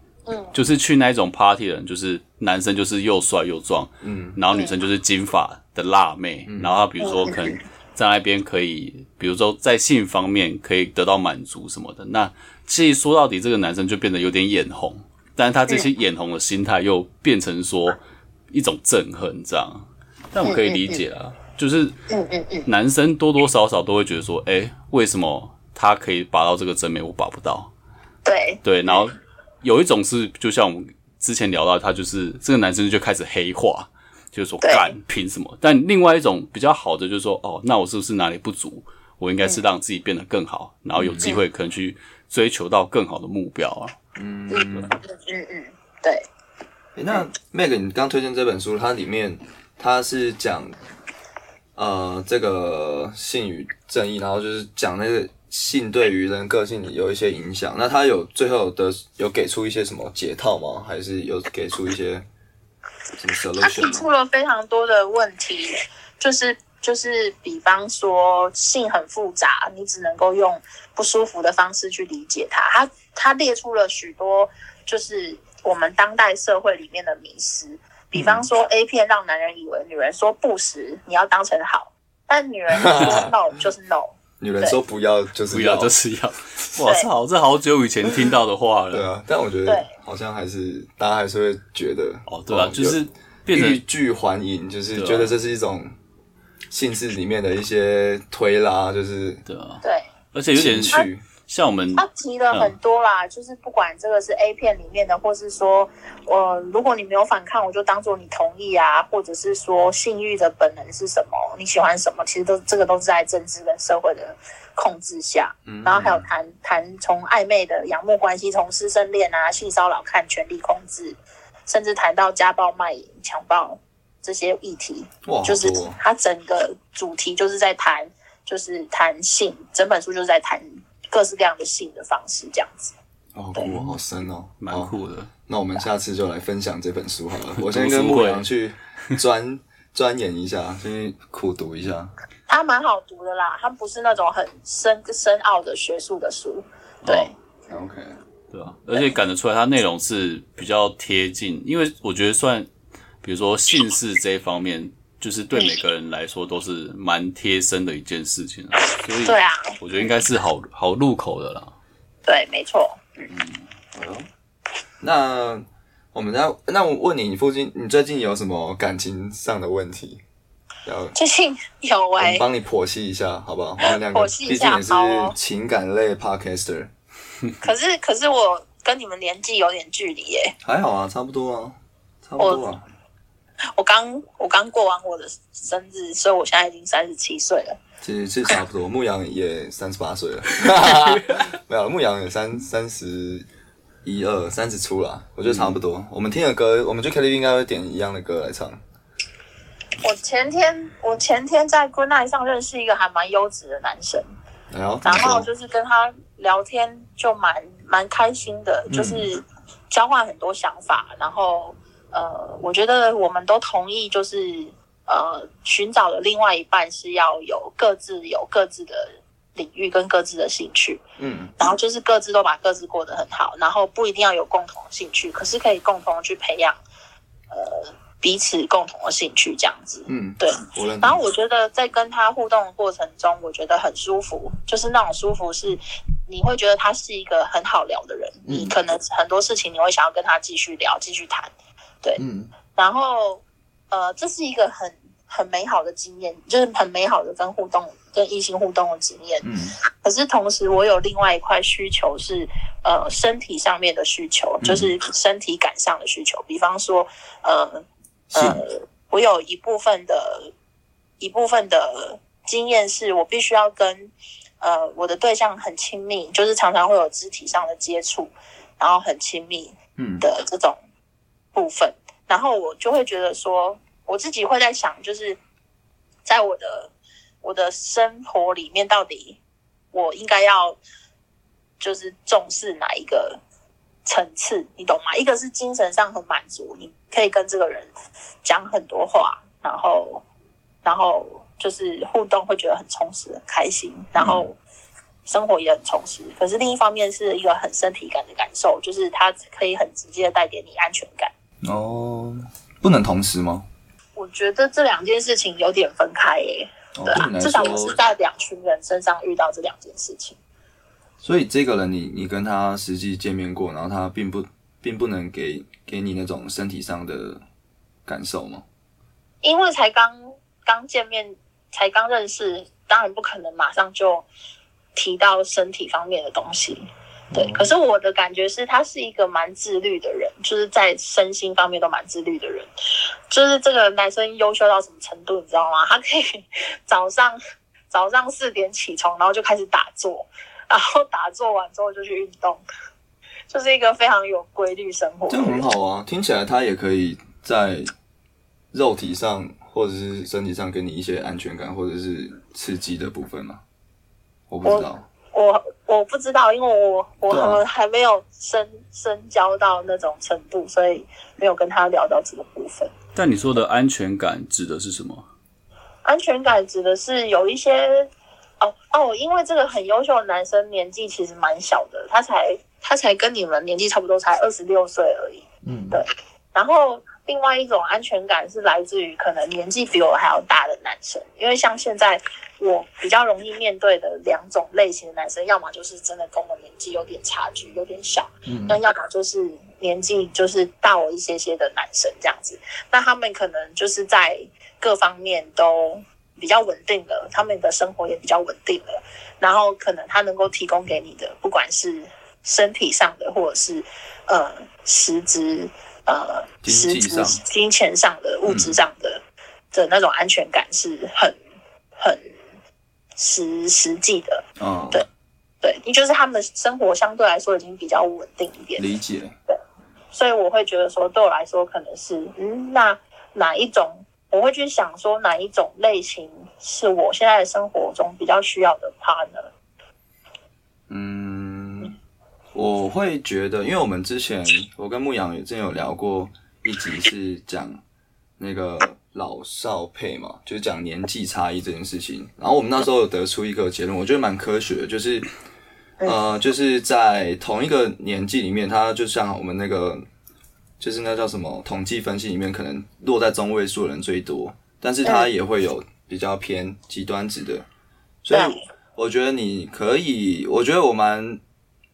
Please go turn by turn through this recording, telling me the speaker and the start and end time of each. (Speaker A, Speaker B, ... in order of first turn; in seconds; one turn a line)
Speaker A: 0.3-0.5
Speaker B: 0.5-22.0
Speaker C: 4.0-4.4
Speaker C: 6.5-6.7
Speaker A: 7.0-7.6
Speaker A: 20.4-21.0
Speaker A: 22.1-22.7
Speaker B: 22.6-27.7
Speaker A: 28.2-29.1
Speaker B: 28.6-44.0
Speaker A: 34.6-34.9
Speaker C: 41.0-41.4
Speaker C: 44.1-45.0
Speaker A: 44.5-46.2
Speaker C: 47.0-50.8
Speaker C: 51.8-62.2
Speaker C: 63.2-64.1
Speaker A: 63.6-84.8
Speaker C: 78.1-78.4
Speaker C: 82.8-83.3
Speaker C: 84.4-85.9
Speaker B: 85.5-89.1
Speaker A: 86.8-87.1
Speaker C: 88.9-95.9
Speaker A: 89.7-89.9
Speaker B: 92.3-93.8
Speaker B: 94.9-95.3
Speaker C: 96.7-99.4
Speaker B: 99.5-102.7
Speaker A: 99.8-100.1
Speaker C: 100.5-101.2
Speaker A: 102.0-132.9
Speaker C: 115.7-116.2
Speaker C: 125.2-126.0
Speaker C: 133.3-134.9
Speaker B: 134.6-135.3
Speaker C: 135.5-142.1
Speaker B: 137.6-138.5
Speaker A: 142.5-147.3
Speaker B: 147.0-147.3
Speaker C: 147.7-148.2
Speaker B: 148.5-152.7
Speaker B: 153.2-161.7
Speaker A: 159.2-160.1
Speaker A: 162.2-163.3
Speaker C: 163.9-164.3
Speaker C: 165.0-170.2
Speaker C: 170.8-171.1
Speaker A: 171.1-172.4
Speaker C: 172.2-176.9
Speaker A: 173.8-175.3
Speaker A: 177.6-180.5
Speaker C: 180.6-182.8
Speaker A: 183.7-187.8
Speaker C: 188.0-193.4
Speaker C: 194.0-198.8
Speaker A: 200.0-204.2
Speaker C: 204.7-205.5
Speaker A: 205.0-221.0
Speaker C: 208.9-209.3
Speaker C: 221.2-221.5
Speaker A: 221.6-226.8
Speaker A: 227.5-241.5
Speaker C: 230.1-231.2
Speaker C: 238.4-238.7
Speaker C: 242.2-242.5
Speaker A: 242.7-249.5
Speaker C: 249.4-249.8
Speaker A: 250.0-260.5
Speaker C: 254.6-254.9
Speaker C: 258.3-258.6
Speaker A: 261.2-270.8
Speaker C: 270.0-270.2
Speaker A: 271.5-275.4
Speaker A: 276.2-276.9
Speaker A: 277.4-279.4
Speaker A: 279.9-280.8
Speaker A: 281.8-283.4
Speaker A: 284.0-287.9
Speaker A: 288.4-290.2
Speaker A: 290.8-294.6
Speaker C: 294.2-294.4
Speaker A: 295.2-301.3
Speaker C: 301.6-303.6
Speaker A: 304.1-310.4
Speaker C: 306.9-308.0
Speaker C: 311.2-317.4
Speaker C: 318.1-318.6
Speaker A: 319.4-324.2
Speaker A: 324.9-332.7
Speaker C: 327.3-327.7
Speaker A: 333.3-337.4
Speaker A: 337.9-342.6
Speaker A: 343.5-345.6
Speaker C: 345.3-347.9
Speaker C: 348.7-353.6
Speaker C: 354.5-355.1
Speaker A: 354.6-362.9
Speaker C: 357.3-357.6
Speaker B: 363.1-365.2
Speaker A: 366.0-411.4
Speaker C: 375.6-376.0
Speaker C: 388.5-388.8
Speaker C: 406.6-407.4
Speaker C: 408.4-408.8
Speaker A: 412.0-412.3
Speaker A: 413.1-415.1
Speaker C: 414.6-415.0
Speaker A: 415.6-418.9
Speaker C: 418.8-419.3
Speaker A: 420.1-429.5
Speaker C: 430.9-431.9
Speaker C: 432.5-437.8
Speaker C: 438.4-445.3
Speaker C: 446.0-450.0
Speaker C: 450.8-457.6
Speaker C: 458.2-461.4
Speaker A: 458.3-458.6